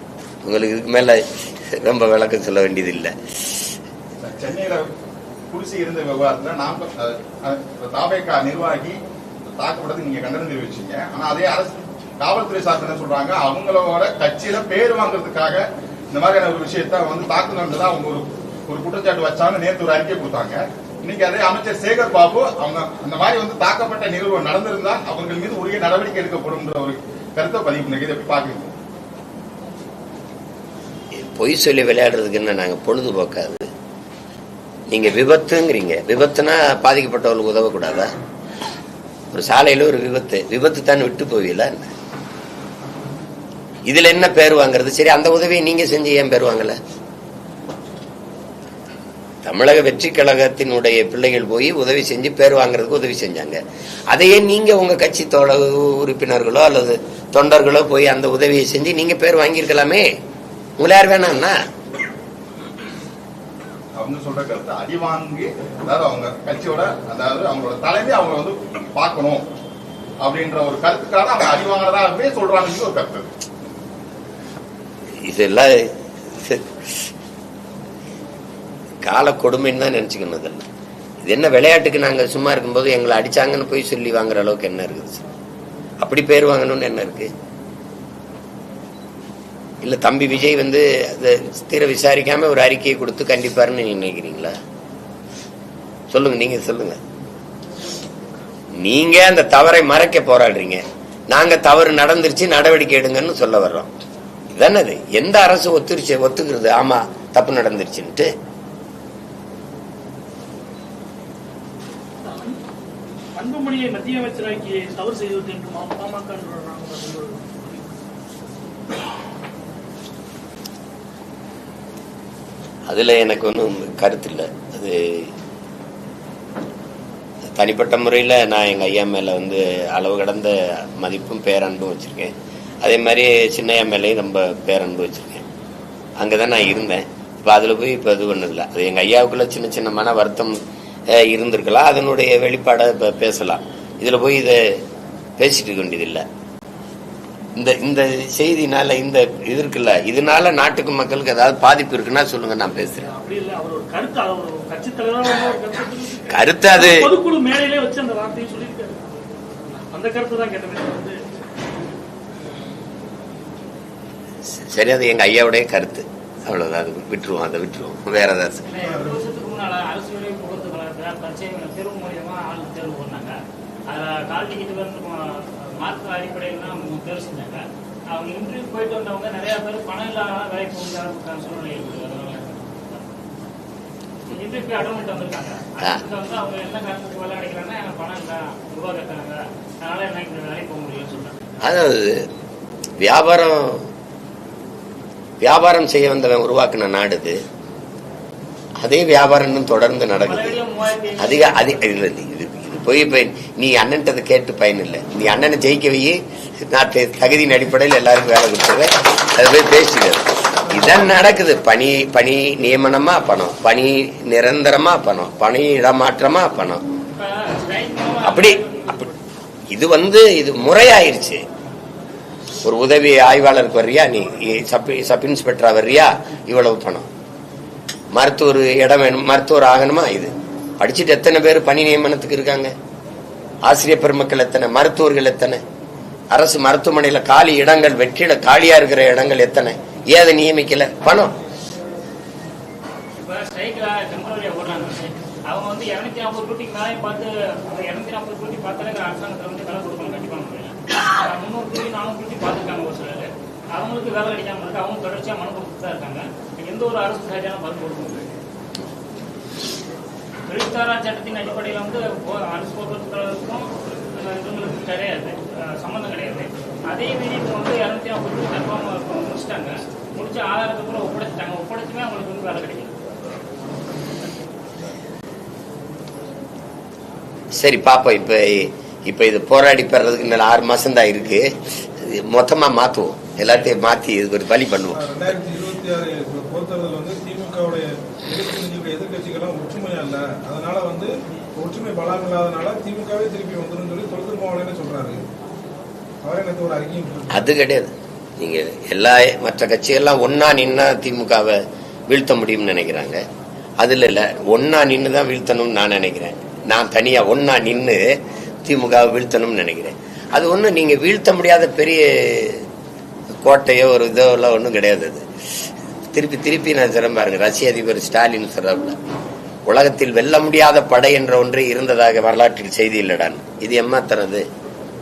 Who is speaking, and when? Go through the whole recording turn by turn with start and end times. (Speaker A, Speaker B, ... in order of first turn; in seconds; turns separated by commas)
Speaker A: 0.4-3.1, Speaker B: 4.2-4.9, Speaker B: 5.5-9.0, Speaker B: 9.6-28.7, Speaker A: 31.2-33.7, Speaker A: 34.9-38.1, Speaker A: 39.3-41.9, Speaker A: 43.9-46.8, Speaker A: 49.4-60.1, Speaker A: 60.8-61.6, Speaker B: 64.0-69.5, Speaker B: 70.2-73.3, Speaker A: 75.2-76.8, Speaker A: 79.0-80.7, Speaker A: 81.2-85.2, Speaker A: 86.0-87.3, Speaker A: 89.8-94.5, Speaker A: 96.1-97.0, Speaker A: 98.8-103.9, Speaker A: 104.5-108.3, Speaker C: 112.2-112.6, Speaker C: 113.4-117.8, Speaker A: 122.9-125.3, Speaker A: 127.6-135.5, Speaker A: 136.2-140.6, Speaker A: 141.1-144.8, Speaker A: 145.4-146.2, Speaker A: 147.6-153.1, Speaker C: 153.1-159.0, Speaker A: 156.3-157.1, Speaker C: 159.7-161.2, Speaker A: 164.5-168.7, Speaker D: 168.7-173.3, Speaker E: 168.8-169.2, Speaker D: 173.9-183.2, Speaker D: 184.3-191.6, Speaker A: 191.6-192.3, Speaker A: 193.0-193.8, Speaker A: 195.4-197.4, Speaker A: 198.8-200.6, Speaker D: 200.2-201.8, Speaker A: 201.2-216.8, Speaker D: 217.2-219.1, Speaker A: 218.2-218.6, Speaker A: 219.7-221.4, Speaker A: 222.6-227.1, Speaker A: 228.1-232.7, Speaker A: 233.7-235.6, Speaker A: 236.3-241.3, Speaker D: 243.2-258.3, Speaker D: 260.5-272.9, Speaker A: 277.6-285.3, Speaker E: 284.9-295.2, Speaker E: 296.2-297.5, Speaker A: 297.3-303.2, Speaker A: 303.8-312.6, Speaker A: 313.4-315.2, Speaker A: 316.1-319.0, Speaker A: 319.7-324.4